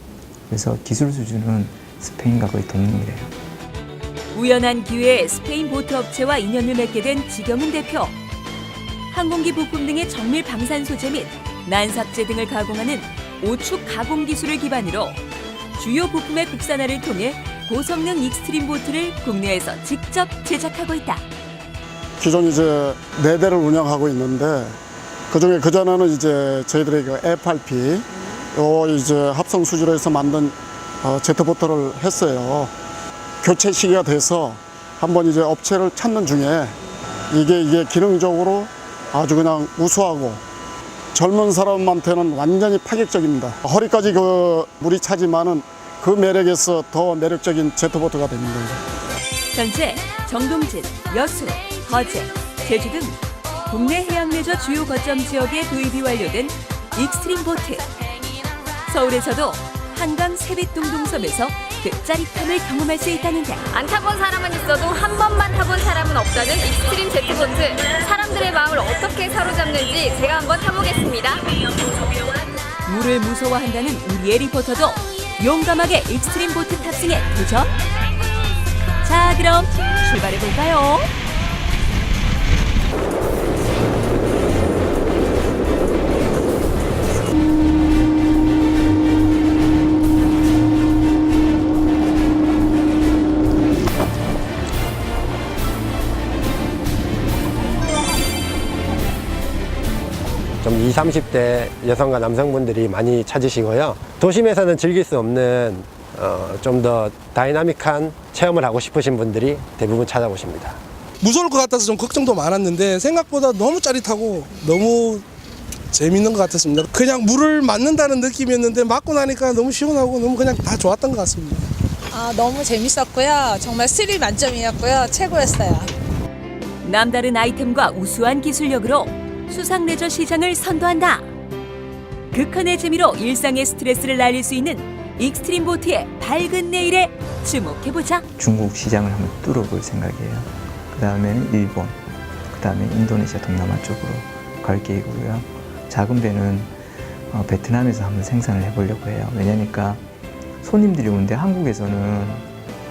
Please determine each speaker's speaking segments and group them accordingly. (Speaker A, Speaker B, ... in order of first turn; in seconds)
Speaker A: 0.5-3.3, 138.4-142.0, 142.5-146.8, 147.3-150.0, 150.6-152.5
Speaker B: 4.3-8.2, 9.1-15.2, 15.8-21.2, 49.5-57.9, 58.9-63.7, 72.9-77.7, 79.0-81.1, 126.8-131.3, 132.3-138.3
Speaker C: 22.2-24.8, 25.3-32.7, 33.4-36.8, 37.3-40.4, 41.1-48.8
Speaker D: 63.7-71.5
Speaker E: 100.6-110.8
Speaker F: 111.2-115.2, 115.9-121.7
Speaker G: 122.1-125.9